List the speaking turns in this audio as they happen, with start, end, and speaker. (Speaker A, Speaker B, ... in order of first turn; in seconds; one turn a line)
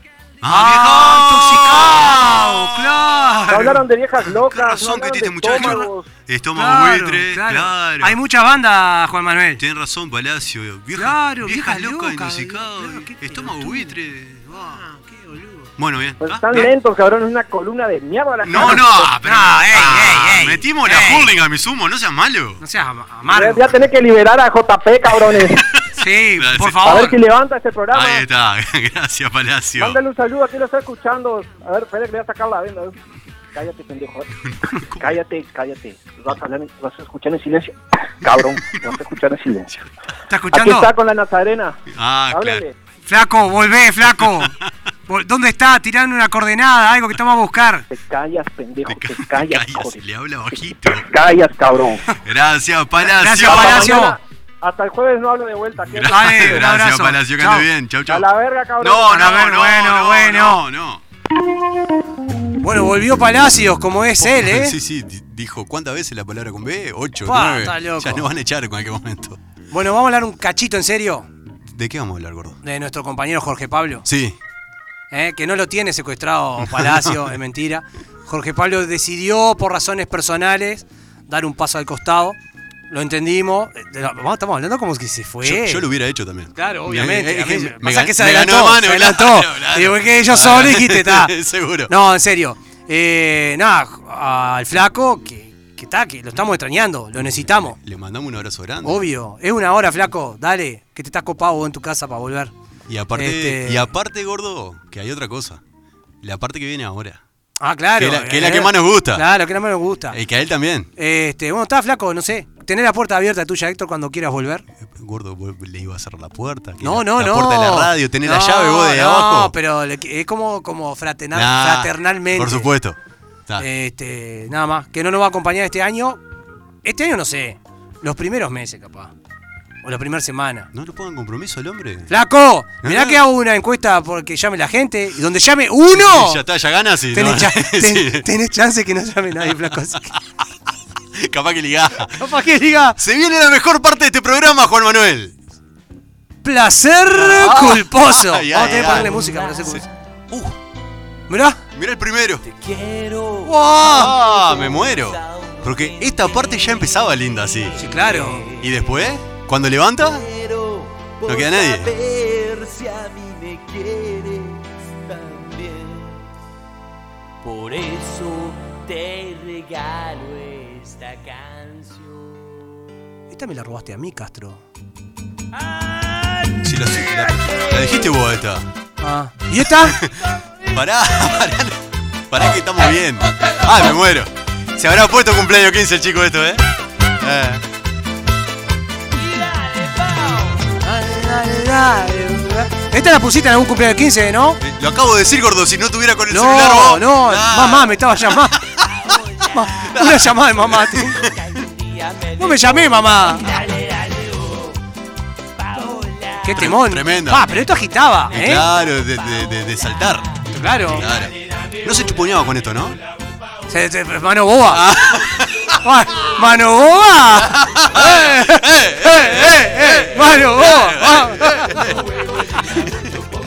Speaker A: 0.4-2.9
Speaker B: 0.5-3.9
Speaker C: 3.5-6.1
Speaker A: 4.2-8.2
Speaker B: 5.5-5.9
Speaker B: 6.6-9.6
Speaker A: 9.6-14.5
Speaker B: 11.0-15.7
Speaker A: 15.8-16.7
Speaker C: 16.2-19.2
Speaker A: 18.4-22.6
Speaker B: 18.6-21.3
Speaker B: 22.6-23.7
Speaker C: 23.3-25.6
Speaker A: 25.1-26.9
Speaker B: 26.0-27.2
Speaker C: 26.8-28.2
Speaker A: 27.9-30.0
Speaker C: 29.8-33.0
Speaker C: 33.5-34.3
Speaker A: 34.4-35.2
Speaker C: 34.9-39.7
Speaker A: 38.3-38.8
Speaker B: 40.3-40.9
Speaker C: 40.5-42.7
Speaker A: 41.9-42.6
Speaker B: 43.1-44.6
Speaker A: 44.0-44.7
Speaker B: 45.1-47.9
Speaker C: 47.9-50.0
Speaker A: 48.9-51.1
Speaker C: 50.9-52.0
Speaker A: 52.2-54.0
Speaker B: 53.0-54.2
Speaker C: 53.4-56.6
Speaker A: 55.8-58.3
Speaker B: 56.1-57.7
Speaker C: 58.1-59.2
Speaker A: 58.8-61.0
Speaker B: 59.0-60.6
Speaker B: 62.6-64.8
Speaker A: 64.2-69.4
Speaker B: 67.2-68.3
Speaker B: 69.7-71.3
Speaker A: 71.7-72.6
Speaker B: 72.6-74.1
Speaker A: 74.0-74.4
Speaker B: 75.1-82.4
Speaker A: 76.6-77.3
Speaker B: 82.9-85.9
Speaker A: 85.4-91.9
Speaker B: 86.5-91.3
Speaker B: 91.9-97.8
Speaker A: 97.2-99.0
Speaker B: 98.8-102.5
Speaker A: 102.9-105.6
Speaker B: 103.1-103.9
Speaker A: 106.2-107.2
Speaker B: 107.6-110.2
Speaker A: 108.0-109.3
Speaker A: 110.1-110.9
Speaker B: 111.0-114.7
Speaker A: 114.8-119.5
Speaker B: 116.8-122.7
Speaker A: 121.3-123.7
Speaker B: 123.6-126.2
Speaker B: 126.8-129.1
Speaker B: 129.8-130.7
Speaker A: 130.7-132.1
Speaker B: 132.1-136.4
Speaker A: 132.8-133.2
Speaker A: 135.9-138.3
Speaker B: 137.1-140.1
Speaker A: 141.1-142.3
Speaker B: 142.2-143.0
Speaker A: 143.0-145.3
Speaker B: 146.4-149.8
Speaker A: 147.1-150.6
Speaker D: 148.6-149.9
Speaker B: 151.3-151.6
Speaker A: 151.7-152.5
Speaker D: 152.4-159.0
Speaker B: 153.4-154.2
Speaker A: 153.8-157.8
Speaker B: 157.8-158.5
Speaker A: 158.6-160.3
Speaker D: 160.0-166.2
Speaker A: 161.3-161.9
Speaker D: 167.4-172.4
Speaker B: 173.3-174.6
Speaker D: 175.6-178.2
Speaker A: 176.6-178.7
Speaker B: 179.0-180.0
Speaker A: 179.8-187.7
Speaker D: 189.1-190.7
Speaker B: 190.8-194.6
Speaker A: 194.6-198.9
Speaker B: 196.3-198.6
Speaker D: 198.8-199.9
Speaker B: 199.5-201.2
Speaker A: 199.9-201.4
Speaker D: 201.1-204.7
Speaker B: 202.4-203.5
Speaker D: 205.6-206.7
Speaker B: 206.4-208.7
Speaker A: 206.6-207.5
Speaker A: 208.3-213.0
Speaker D: 208.3-210.4
Speaker B: 210.5-211.1
Speaker B: 213.7-214.9
Speaker A: 214.7-215.8
Speaker B: 215.8-222.0
Speaker A: 217.4-223.1